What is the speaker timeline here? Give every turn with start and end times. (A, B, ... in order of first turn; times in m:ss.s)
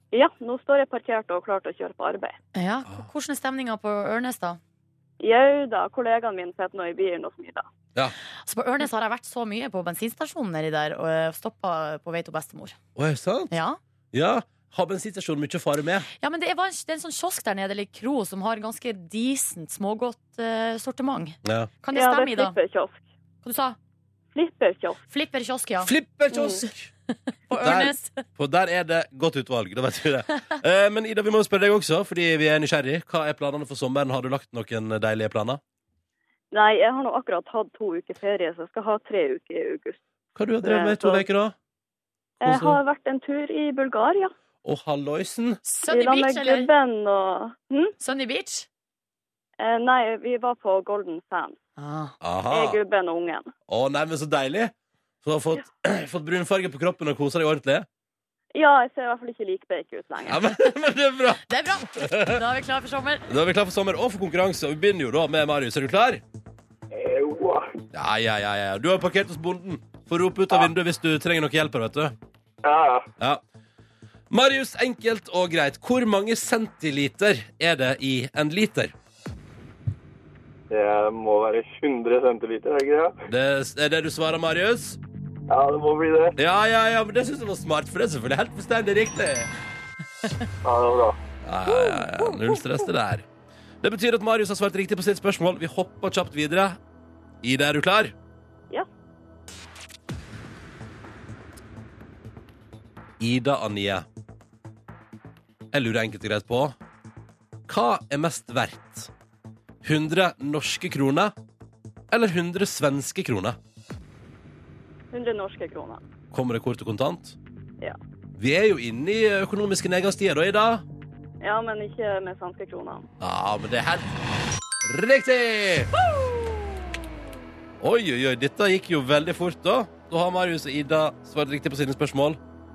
0:00.1-0:02.4 A
0:02.5-0:04.6 B
0:05.2-0:07.7 A
0:08.4-0:12.8 B
0:13.0-0:13.6 C
0:13.5-0:13.8 B
0:14.1-0:16.1 C
0:16.2-0:22.6 B
0:21.4-0:21.7 C
0:21.9-0:23.0 A
0:23.4-0:23.8 B
0:24.4-0:25.0 A
0:25.1-0:25.9 B
0:25.8-0:26.9 C
0:26.3-0:26.6 A
0:27.1-0:28.3 B
0:27.5-0:35.6 C
0:36.5-0:40.0 A
0:40.4-0:41.6 C
0:40.6-0:41.2 A
0:42.4-0:42.8 C
0:42.4-0:44.3 A
0:44.6-0:45.6 C
0:45.6-0:46.7 B
0:45.9-0:47.9 A
0:48.0-0:48.7 B
0:49.6-0:51.6 A
0:51.8-0:52.2 B
0:52.2-0:52.8 C
0:52.5-0:53.5 A
0:53.7-0:57.9 C
0:58.6-1:00.5 A
1:00.2-1:01.4 C
1:01.5-1:03.3 B
1:02.0-1:02.4 C
1:03.3-1:06.2 C
1:06.9-1:07.7 D
1:07.9-1:12.1 C
1:12.6-1:13.1 D
1:14.3-1:18.9 C
1:20.7-1:23.1 D
1:23.3-1:25.0 C
1:25.5-1:26.4 D
1:26.4-1:29.5 C
1:30.6-1:31.2 D
1:31.4-1:33.3 C
1:31.7-1:32.8 B
1:33.8-1:36.8 C
1:37.4-1:38.2 C
1:43.2-1:44.1 C
1:45.7-1:46.8 C
1:47.7-1:49.1 C
1:49.8-1:51.3 C
1:52.1-1:53.6 C
1:55.1-1:56.0 A
1:56.3-1:57.4 C
1:58.4-2:00.8 C
2:01.4-2:03.1 A
2:03.2-2:04.2 C
2:04.8-2:05.9 C
2:07.8-2:12.4 C